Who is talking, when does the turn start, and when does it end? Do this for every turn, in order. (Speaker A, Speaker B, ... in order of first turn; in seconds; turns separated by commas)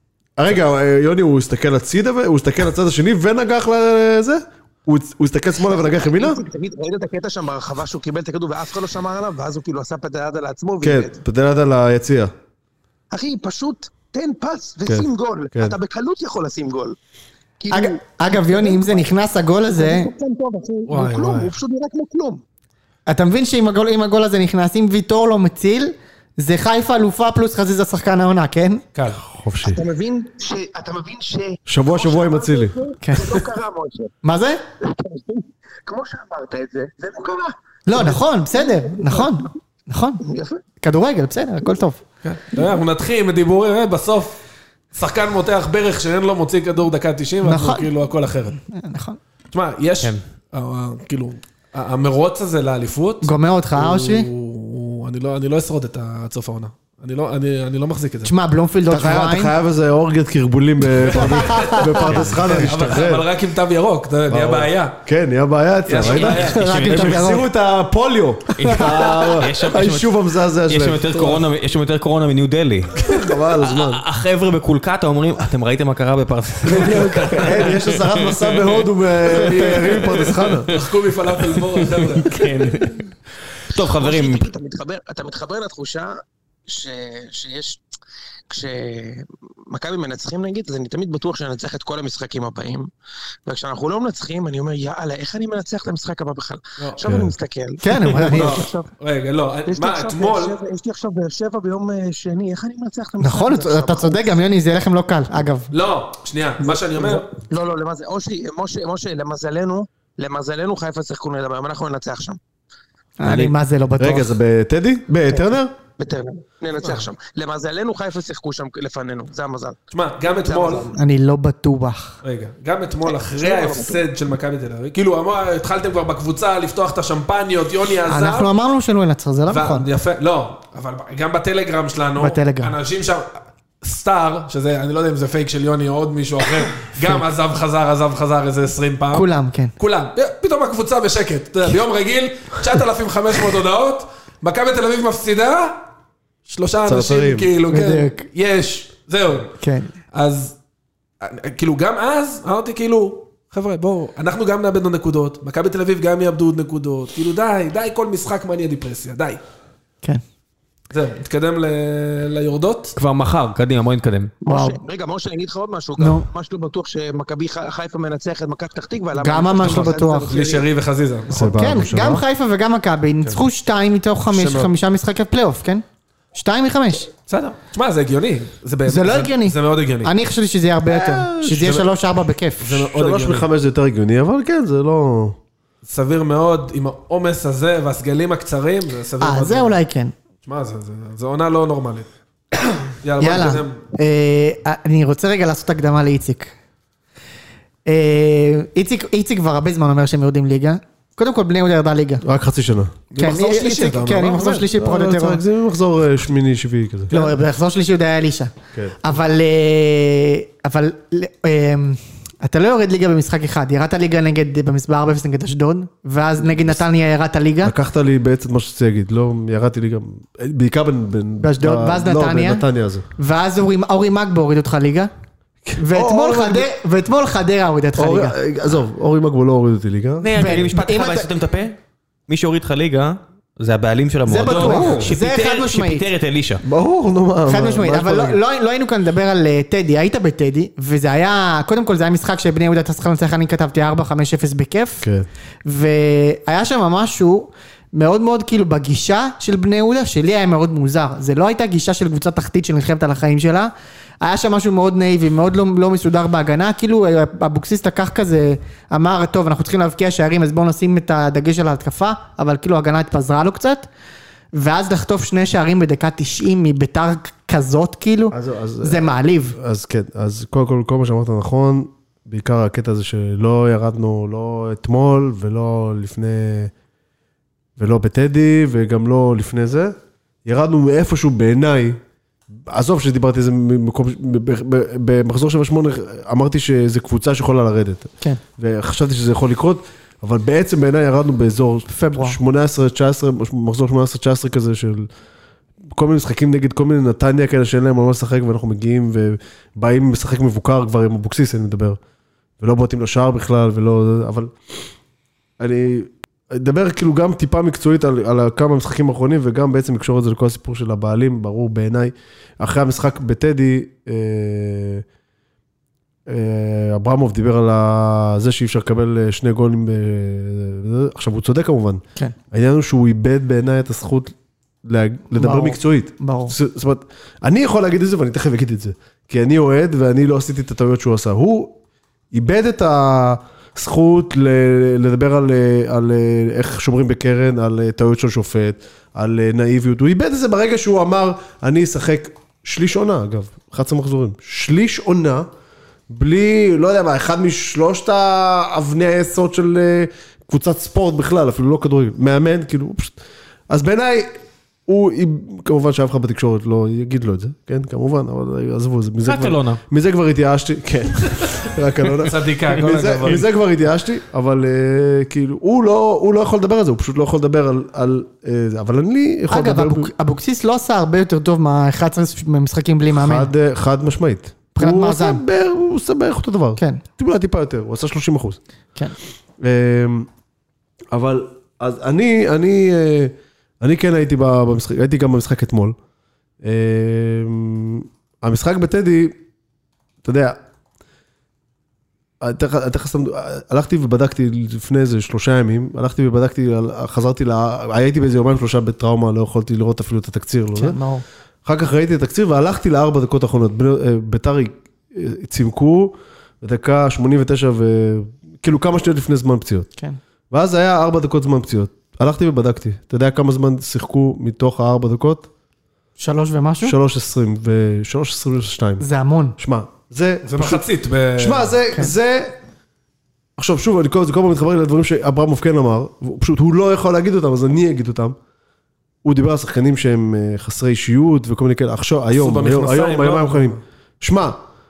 Speaker A: 0.4-6.4, Speaker B: 5.6-11.1, Speaker A: 10.8-12.3, Speaker B: 13.1-17.0, Speaker A: 14.9-15.8, Speaker B: 17.6-19.1, Speaker C: 17.7-20.1, Speaker B: 19.8-22.4, Speaker D: 20.9-21.5, Speaker C: 23.1-28.8, Speaker D: 28.9-29.2, Speaker A: 29.2-29.8, Speaker B: 29.6-34.1, Speaker A: 31.7-32.8, Speaker C: 33.0-33.4, Speaker C: 34.2-34.6, Speaker B: 34.8-39.4, Speaker C: 37.9-40.2, Speaker B: 40.2-40.6, Speaker C: 40.8-42.0, Speaker D: 42.2-44.4, Speaker D: 44.9-48.6, Speaker C: 47.4-47.9, Speaker C: 48.6-49.2, Speaker D: 49.5-58.3, Speaker C: 53.2-54.3, Speaker C: 58.2-59.5, Speaker A: 58.9-63.3, Speaker D: 61.0-65.0, Speaker C: 61.2-62.6, Speaker E: 62.0-62.4, Speaker A: 64.3-71.1, Speaker D: 65.9-67.0, Speaker E: 66.2-67.3, Speaker C: 66.3-67.5, Speaker E: 68.6-78.7, Speaker D: 71.1-71.5, Speaker A: 73.0-74.0, Speaker A: 77.1-80.7, Speaker D: 79.2-82.4, Speaker E: 79.7-80.8, Speaker E: 81.5-83.0, Speaker E: 83.7-84.5, Speaker B: 83.7-86.1, Speaker B: 86.7-87.8, Speaker B: 88.5-92.9, Speaker B: 93.5-98.9, Speaker D: 96.8-97.1, Speaker A: 97.0-97.3, Speaker C: 97.8-98.7, Speaker D: 98.1-100.6, Speaker B: 99.7-104.4, Speaker C: 103.2-105.7, Speaker D: 105.7-107.3, Speaker B: 106.7-112.4, Speaker C: 113.2-114.3, Speaker A: 113.2-115.7, Speaker B: 115.3-119.8, Speaker D: 119.9-120.9, Speaker B: 120.4-121.0, Speaker C: 121.0-122.2, Speaker D: 122.2-128.5, Speaker B: 123.1-124.0, Speaker C: 128.1-129.9, Speaker D: 129.5-145.8, Speaker C: 132.2-132.8, Speaker C: 139.1-139.7, Speaker D: 146.5-149.5, Speaker A: 146.9-147.5, Speaker C: 147.7-148.3, Speaker C: 149.6-149.9, Speaker D: 150.1-150.6, Speaker D: 151.2-159.4, Speaker D: 160.9-163.0, Speaker E: 163.0-164.3, Speaker C: 164.5-164.8, Speaker B: 164.5-170.7, Speaker C: 166.0-166.3, Speaker C: 169.2-170.4, Speaker D: 169.6-171.5, Speaker A: 171.3-172.2, Speaker C: 171.4-177.1, Speaker D: 174.3-174.7, Speaker D: 177.3-180.1, Speaker C: 178.9-182.8, Speaker A: 180.9-181.8, Speaker D: 182.6-183.5, Speaker A: 182.7-185.4, Speaker D: 185.8-189.8, Speaker C: 189.2-190.1, Speaker D: 190.4-192.1, Speaker D: 192.9-193.8, Speaker C: 193.2-196.5, Speaker C: 197.9-202.2, Speaker A: 202.2-203.0, Speaker D: 203.1-204.7, Speaker C: 203.2-205.4, Speaker A: 204.4-207.1, Speaker D: 207.1-207.4, Speaker C: 207.1-217.7, Speaker A: 216.5-216.8, Speaker A: 217.6-223.1, Speaker C: 221.4-222.7, Speaker C: 223.2-225.1, Speaker A: 225.7-226.7, Speaker C: 225.8-228.4, Speaker A: 228.0-230.3, Speaker E: 230.2-236.6, Speaker C: 230.3-231.3, Speaker C: 234.3-236.1, Speaker D: 234.5-235.1, Speaker A: 234.6-235.0, Speaker A: 236.6-238.4, Speaker C: 237.5-245.1, Speaker A: 245.0-245.3, Speaker C: 245.7-263.9, Speaker C: 264.5-269.6, Speaker A: 268.3-276.7, Speaker A: 277.8-282.0, Speaker A: 282.5-295.1, Speaker A: 295.9-302.0, Speaker A: 302.6-304.5, Speaker A: 305.6-315.0, Speaker A: 316.3-331.8, Speaker C: 325.4-326.6, Speaker A: 332.3-345.5, Speaker A: 346.1-353.2, Speaker A: 353.7-354.3, Speaker A: 354.9-370.1, Speaker E: 359.2-359.8, Speaker D: 362.2-363.5, Speaker C: 369.5-373.5, Speaker A: 373.1-378.6, Speaker C: 374.8-375.4, Speaker C: 376.8-377.0, Speaker A: 379.6-380.3, Speaker A: 381.1-386.0, Speaker A: 386.6-389.4, Speaker A: 390.2-390.6, Speaker A: 392.4-401.0, Speaker C: 400.8-401.2, Speaker A: 401.6-409.9, Speaker A: 410.5-415.5, Speaker C: 416.2-417.0, Speaker A: 416.8-422.6, Speaker C: 419.0-419.6, Speaker D: 420.4-421.7, Speaker A: 423.6-428.4, Speaker A: 429.2-434.6, Speaker D: 432.3-433.8